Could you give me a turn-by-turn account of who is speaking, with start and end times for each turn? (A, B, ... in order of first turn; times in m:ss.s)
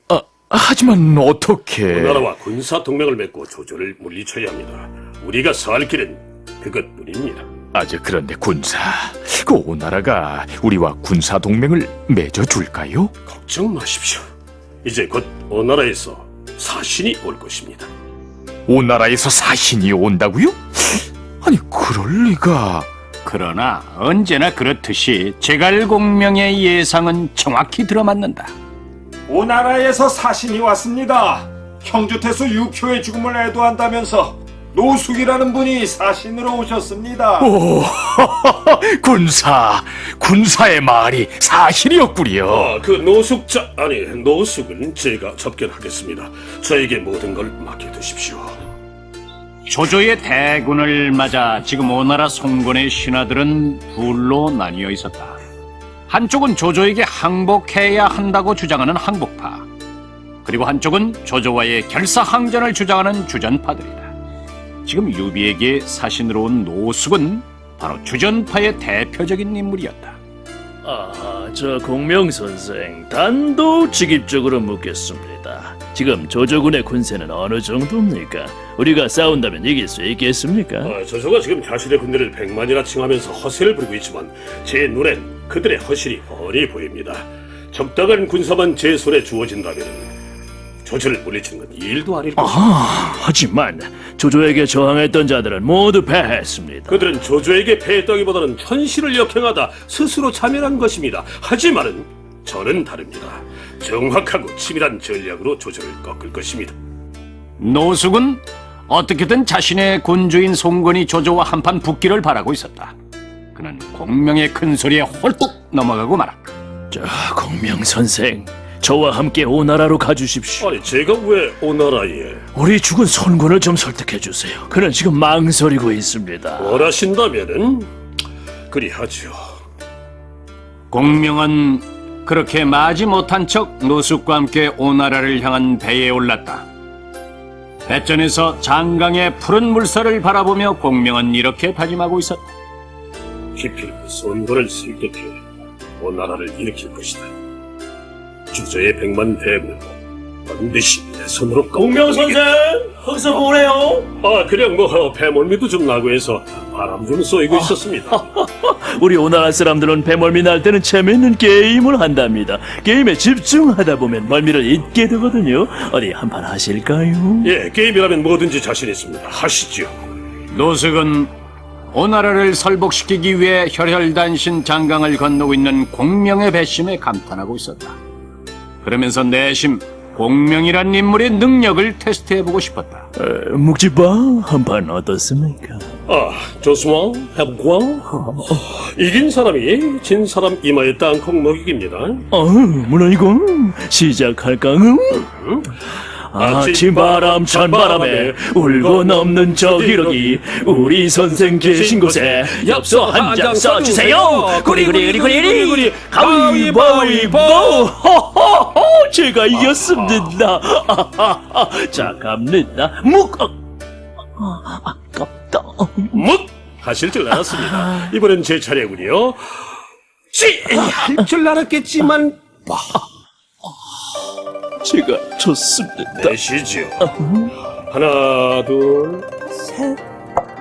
0:00.1-0:01.6 A
0:01.9-0:07.5 B
0:07.8-0:13.1 A
0:13.3-0:14.2 B
0:14.8-0:17.9 B
0:18.7-0:22.9 A
0:23.2-0:28.5 C
0:29.3-0:37.6 D
0:37.6-0:42.7 A
0:42.5-0:48.6 B
0:49.7-0:55.4 C
0:56.1-0:59.7 C
1:00.4-1:04.1 C
1:04.8-1:10.2 C
1:10.8-1:21.0 E
1:20.8-1:30.1 B
1:30.8-1:33.2 B
1:32.4-1:37.1 E
1:36.9-1:46.7 B
1:47.6-1:52.9 C
1:53.6-1:56.5 C
1:56.9-2:00.8 E
2:00.6-2:02.4 B
2:02.6-2:06.9 E
2:06.6-2:07.9 B
2:08.7-2:09.4 B
2:10.9-2:16.6 C
2:17.9-2:22.5 C
2:23.6-2:25.4 B
2:26.0-2:27.3 B
2:28.5-2:30.0 B
2:30.5-2:32.5 B
2:31.8-2:34.1 E
2:34.2-2:38.2 B
2:37.5-2:47.5 E
2:47.4-2:49.9 B
2:50.5-2:51.3 C
2:51.9-2:58.0 C
2:58.8-3:03.1 C
3:03.2-3:05.9 E
3:06.1-3:12.2 B
3:12.3-3:15.3 E
3:15.3-3:15.7 B
3:16.3-3:33.6 E
3:16.4-3:28.0 B
3:29.5-3:30.4 B
3:34.4-3:36.2 E
3:36.1-3:39.6 B
3:37.3-3:38.0 E
3:40.3-3:42.8 B
3:44.8-3:46.4 E
3:46.2-3:47.1 B
3:47.0-3:47.5 E
3:47.9-3:49.3 B
3:49.6-3:50.0 E